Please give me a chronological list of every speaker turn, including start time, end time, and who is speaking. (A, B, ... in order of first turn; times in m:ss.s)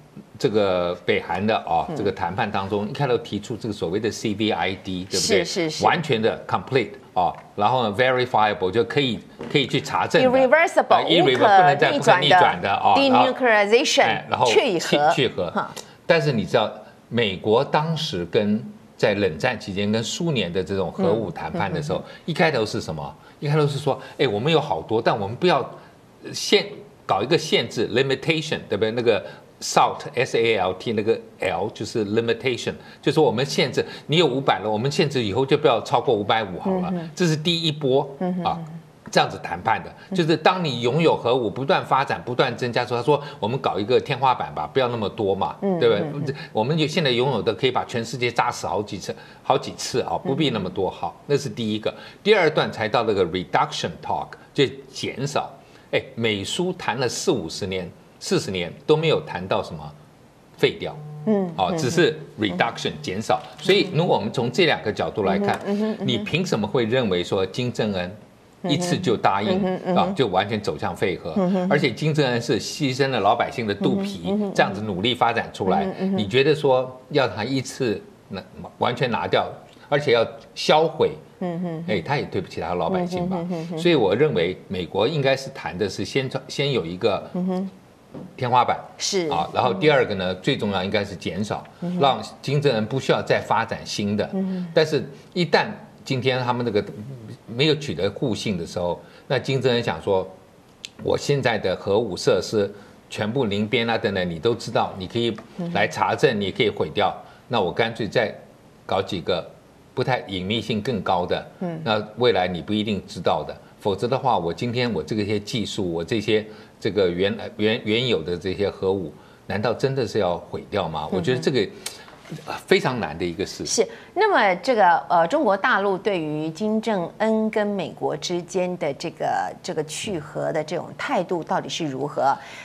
0:00.4-0:13.4 A
0:05.1-0:06.0 B
0:10.2-0:15.7 B
0:14.0-0:59.9 A
0:45.6-0:46.1 B
1:00.6-1:01.0 A
1:01.2-1:02.0 B
1:01.6-1:21.2 A
1:05.3-1:06.1 B
1:08.6-1:10.2 B
1:11.4-1:11.8 B
1:13.8-1:14.7 B
1:15.7-1:16.3 B
1:21.4-1:21.9 B
1:21.8-1:27.5 A
1:22.9-1:23.9 B
1:27.4-1:27.7 B
1:28.4-1:40.3 A
1:29.0-1:29.5 B
1:34.4-1:34.7 B
1:41.0-2:03.7 A
2:03.6-2:12.4 B